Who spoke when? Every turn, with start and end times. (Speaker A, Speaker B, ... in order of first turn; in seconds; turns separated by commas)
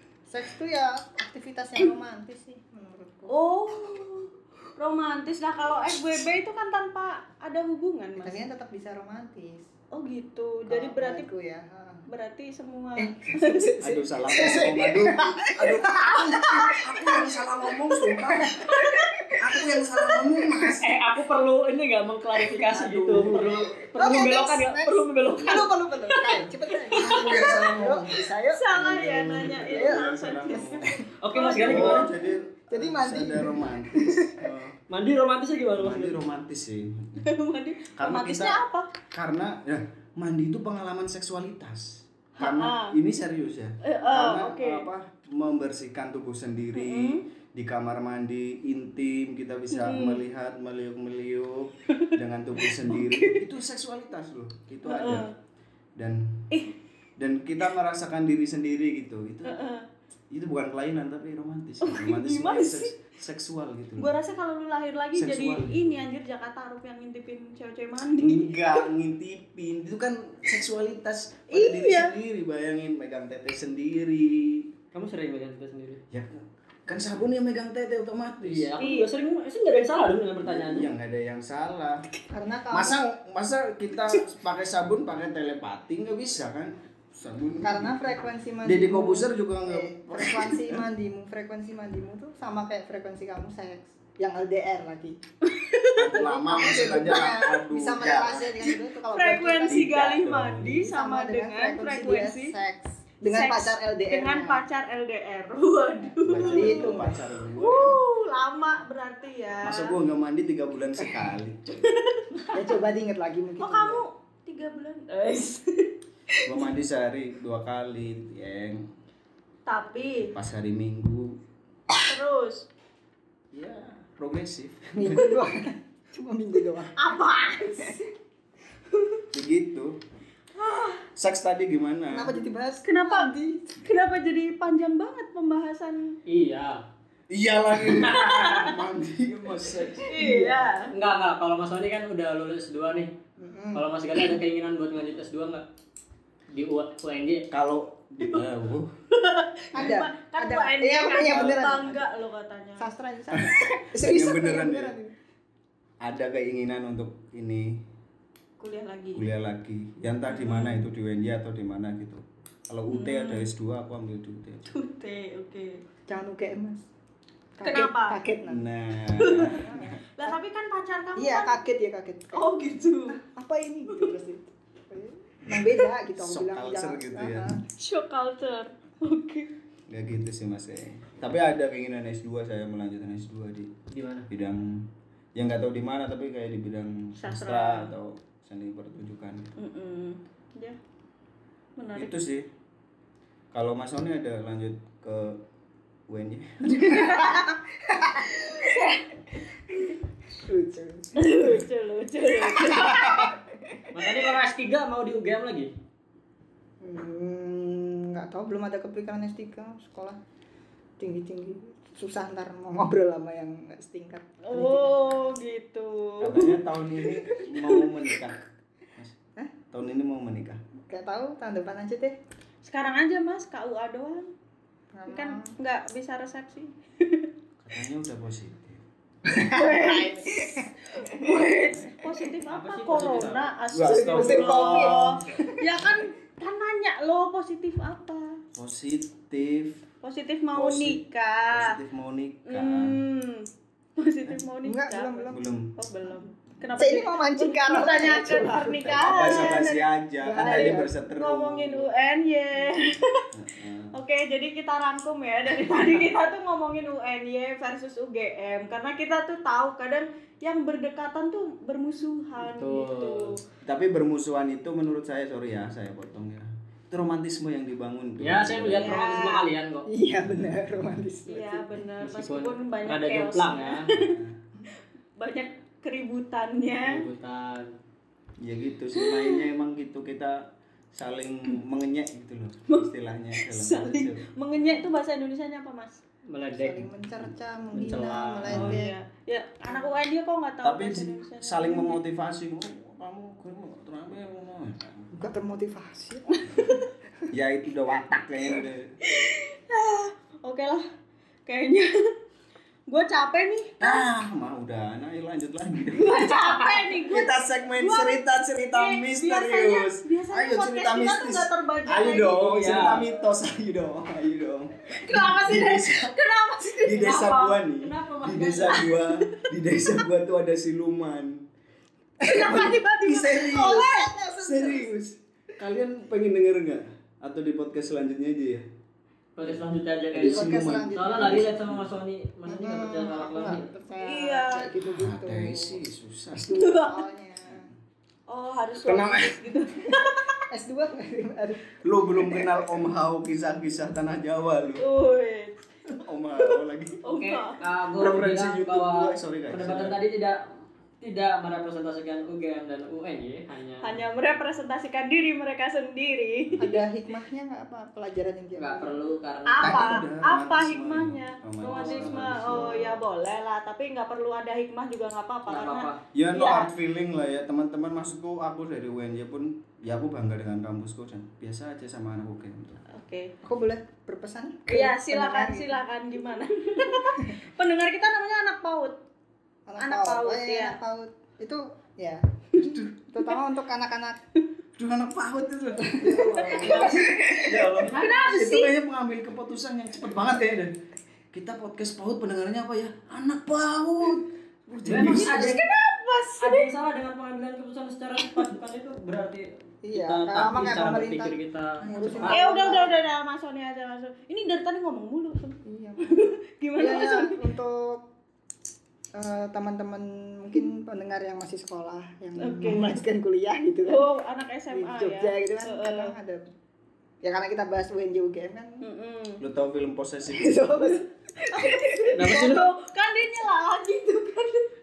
Speaker A: 0.3-3.4, Speaker B: 3.3-8.4, Speaker A: 8.2-9.7, Speaker B: 9.9-11.3, Speaker A: 10.7-12.0, Speaker B: 12.1-13.7, Speaker A: 13.0-20.8, Speaker C: 13.8-18.6, Speaker C: 19.4-20.9, Speaker D: 20.8-25.7, Speaker C: 22.6-23.7, Speaker A: 23.9-31.0, Speaker C: 26.9-28.2, Speaker B: 27.1-27.6, Speaker B: 28.5-32.1, Speaker C: 28.9-31.0, Speaker D: 31.2-32.1, Speaker C: 31.6-34.8, Speaker A: 32.7-34.4, Speaker D: 34.9-36.2, Speaker C: 35.8-37.3, Speaker B: 37.2-38.9, Speaker C: 38.0-55.3, Speaker B: 42.4-43.0, Speaker B: 43.8-44.9, Speaker B: 46.7-47.2, Speaker B: 49.7-50.2, Speaker B: 52.8-53.4, Speaker B: 54.8-55.3, Speaker C: 56.0-56.5, Speaker C: 57.2-59.6, Speaker B: 59.4-59.8, Speaker C: 60.3-64.1, Speaker B: 61.8-62.9, Speaker B: 64.0-68.8, Speaker C: 65.1-66.0, Speaker C: 68.2-74.7, Speaker B: 71.5-72.1, Speaker D: 74.9-76.0, Speaker C: 76.1-78.7, Speaker D: 78.4-80.9, Speaker B: 78.8-79.1, Speaker C: 80.4-82.0, Speaker A: 82.3-83.0, Speaker C: 82.7-90.8, Speaker A: 87.6-95.2, Speaker B: 95.4-96.1, Speaker C: 96.0-98.6, Speaker A: 96.1-99.9, Speaker B: 98.6-102.5, Speaker C: 99.7-100.8, Speaker A: 100.6-104.6, Speaker B: 103.3-107.0, Speaker C: 106.2-108.0, Speaker A: 106.3-107.2, Speaker B: 107.5-109.9, Speaker C: 109.6-111.9, Speaker A: 111.0-111.3, Speaker B: 111.9-112.7, Speaker A: 112.5-114.0, Speaker B: 113.6-116.7, Speaker C: 116.4-118.8, Speaker B: 119.7-120.3, Speaker C: 120.3-121.4, Speaker B: 122.0-122.7, Speaker C: 123.5-125.5, Speaker A: 125.0-127.0, Speaker B: 127.0-128.0, Speaker A: 127.7-128.1, Speaker C: 129.3-129.9, Speaker B: 130.6-131.0, Speaker C: 131.2-132.4, Speaker A: 132.1-133.7, Speaker B: 132.8-136.2, Speaker D: 136.2-136.8, Speaker C: 137.3-140.2, Speaker B: 137.9-138.8, Speaker B: 140.1-140.9, Speaker A: 140.1-140.7, Speaker D: 140.9-143.1, Speaker A: 143.4-143.8, Speaker D: 143.7-145.6, Speaker D: 146.5-147.4, Speaker C: 147.5-148.9, Speaker B: 149.1-152.9, Speaker A: 149.7-152.0, Speaker A: 152.8-155.1, Speaker C: 153.3-154.9, Speaker C: 156.0-157.8, Speaker B: 158.6-159.2, Speaker C: 159.1-164.6, Speaker B: 160.3-160.8, Speaker B: 162.9-163.5, Speaker B: 164.7-165.8, Speaker A: 166.1-166.8, Speaker A: 167.6-168.6, Speaker B: 167.6-168.2, Speaker C: 168.5-169.9, Speaker B: 169.2-171.6, Speaker A: 169.3-170.4, Speaker A: 171.2-172.6, Speaker B: 172.3-173.2, Speaker A: 173.2-177.6, Speaker B: 173.9-174.1, Speaker C: 176.2-177.5, Speaker B: 177.8-179.5, Speaker C: 179.9-183.7, Speaker D: 183.9-184.3, Speaker C: 184.3-189.5, Speaker B: 187.2-187.9, Speaker B: 189.6-190.8, Speaker B: 191.8-192.2, Speaker C: 191.9-192.5, Speaker C: 193.5-195.4, Speaker C: 196.1-197.3, Speaker A: 196.8-197.4, Speaker B: 196.8-197.5, Speaker A: 197.9-198.8, Speaker B: 198.6-199.0, Speaker A: 200.3-201.6, Speaker B: 201.2-203.4, Speaker D: 203.9-205.7, Speaker A: 206.8-210.2, Speaker A: 211.0-215.0, Speaker B: 214.4-217.8, Speaker C: 216.2-218.4, Speaker C: 219.7-220.6, Speaker A: 220.9-222.2, Speaker B: 222.6-224.3, Speaker A: 224.9-225.5, Speaker B: 225.1-227.3, Speaker C: 227.6-228.8, Speaker A: 229.3-231.5, Speaker B: 229.5-238.4, Speaker D: 232.5-233.5, Speaker C: 233.7-235.2, Speaker A: 233.8-235.8, Speaker C: 238.5-239.8, Speaker B: 240.0-241.8, Speaker C: 240.5-241.0, Speaker C: 241.5-243.0, Speaker B: 242.5-249.8, Speaker A: 244.6-245.4, Speaker C: 245.3-245.7, Speaker A: 246.7-249.6, Speaker C: 248.8-251.9, Speaker A: 250.2-250.9, Speaker B: 250.4-253.2, Speaker C: 253.3-253.9, Speaker B: 253.9-263.4, Speaker D: 262.4-263.3, Speaker C: 263.6-269.1, Speaker D: 268.2-269.9, Speaker B: 268.7-269.5, Speaker A: 269.9-271.8, Speaker B: 271.3-274.2, Speaker D: 272.0-273.9, Speaker C: 273.9-274.4, Speaker B: 275.2-277.1, Speaker D: 276.8-277.7, Speaker C: 278.4-284.2, Speaker B: 278.9-279.4, Speaker B: 282.7-286.0, Speaker D: 286.3-288.8, Speaker A: 286.6-288.9, Speaker C: 288.5-288.7, Speaker B: 288.5-292.0, Speaker C: 290.6-295.1, Speaker A: 295.1-296.8, Speaker C: 297.3-298.9, Speaker B: 299.0-300.8, Speaker B: 301.4-301.9, Speaker B: 302.9-304.0, Speaker C: 303.8-306.3, Speaker B: 305.9-308.2, Speaker D: 306.3-306.8, Speaker C: 307.1-316.1, Speaker B: 308.7-312.8, Speaker D: 312.5-313.1, Speaker B: 314.9-317.2, Speaker C: 316.8-321.5, Speaker D: 316.9-318.9, Speaker B: 318.7-319.1, Speaker B: 322.2-324.1, Speaker A: 322.2-322.7, Speaker C: 322.3-328.6, Speaker A: 323.4-324.9, Speaker D: 329.4-333.7, Speaker C: 330.1-331.8, Speaker A: 330.2-331.7, Speaker A: 332.5-335.8, Speaker B: 334.0-334.7, Speaker C: 334.9-336.5, Speaker A: 336.4-337.7, Speaker B: 336.5-337.0, Speaker B: 338.3-340.4, Speaker C: 338.8-339.5, Speaker A: 340.5-342.6, Speaker C: 341.8-344.8, Speaker B: 344.8-345.7, Speaker C: 345.9-347.0, Speaker B: 347.0-347.6, Speaker D: 347.1-350.4, Speaker C: 348.0-350.0, Speaker D: 351.0-354.0, Speaker B: 353.8-356.8, Speaker A: 356.6-359.0, Speaker D: 358.6-360.0, Speaker B: 359.5-366.7, Speaker C: 359.6-363.0, Speaker D: 361.6-362.6, Speaker D: 365.5-366.0, Speaker C: 366.1-372.8, Speaker B: 372.9-373.3, Speaker A: 373.4-375.8, Speaker B: 374.7-379.0, Speaker A: 379.7-382.2, Speaker B: 379.8-380.8, Speaker C: 382.6-382.9, Speaker A: 383.1-384.2, Speaker C: 384.8-390.7, Speaker A: 385.8-387.4, Speaker B: 386.4-388.7, Speaker D: 387.8-388.4, Speaker C: 391.3-395.6, Speaker B: 394.8-396.7, Speaker D: 394.8-395.6, Speaker D: 396.4-402.5, Speaker A: 399.8-402.9, Speaker B: 402.2-407.4, Speaker A: 405.6-406.2, Speaker A: 406.8-408.1, Speaker A: 409.1-414.1, Speaker B: 412.4-413.0, Speaker B: 413.9-416.1, Speaker A: 414.7-416.5, Speaker A: 417.2-418.8, Speaker B: 418.8-419.4, Speaker C: 419.4-420.9, Speaker A: 420.3-422.3, Speaker B: 421.4-424.7, Speaker D: 422.1-422.7